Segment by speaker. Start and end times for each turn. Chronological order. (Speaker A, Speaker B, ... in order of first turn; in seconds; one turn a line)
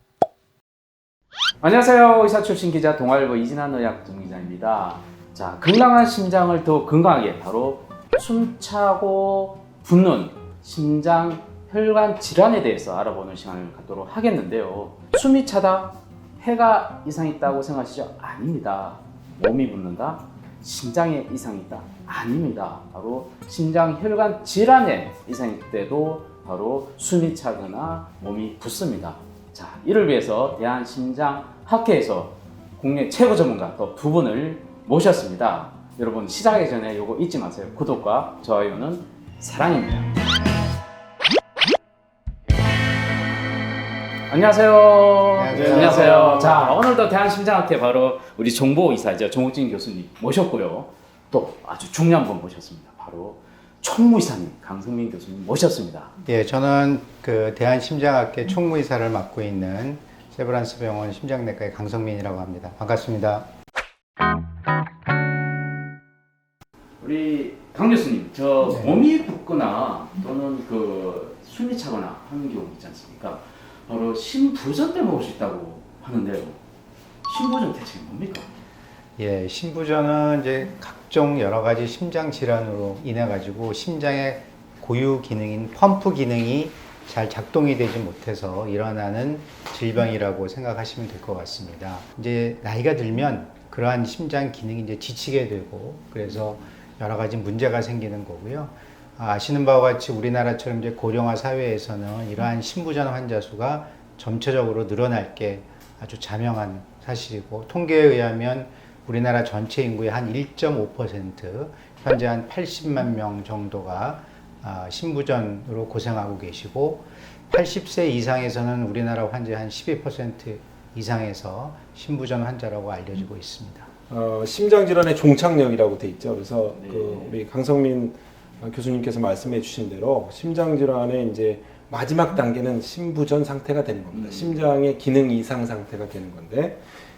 Speaker A: 1.6-40.1
Speaker A: 44.3-56.1
Speaker B: 45.4-46.9
Speaker C: 45.6-46.5
Speaker B: 56.2-63.5
Speaker A: 67.0-76.6
Speaker B: 68.7-69.1
Speaker A: 77.2-78.5
Speaker B: 79.2-123.9
Speaker C: 124.1-136.8
Speaker A: 126.7-127.4
Speaker A: 134.1-134.7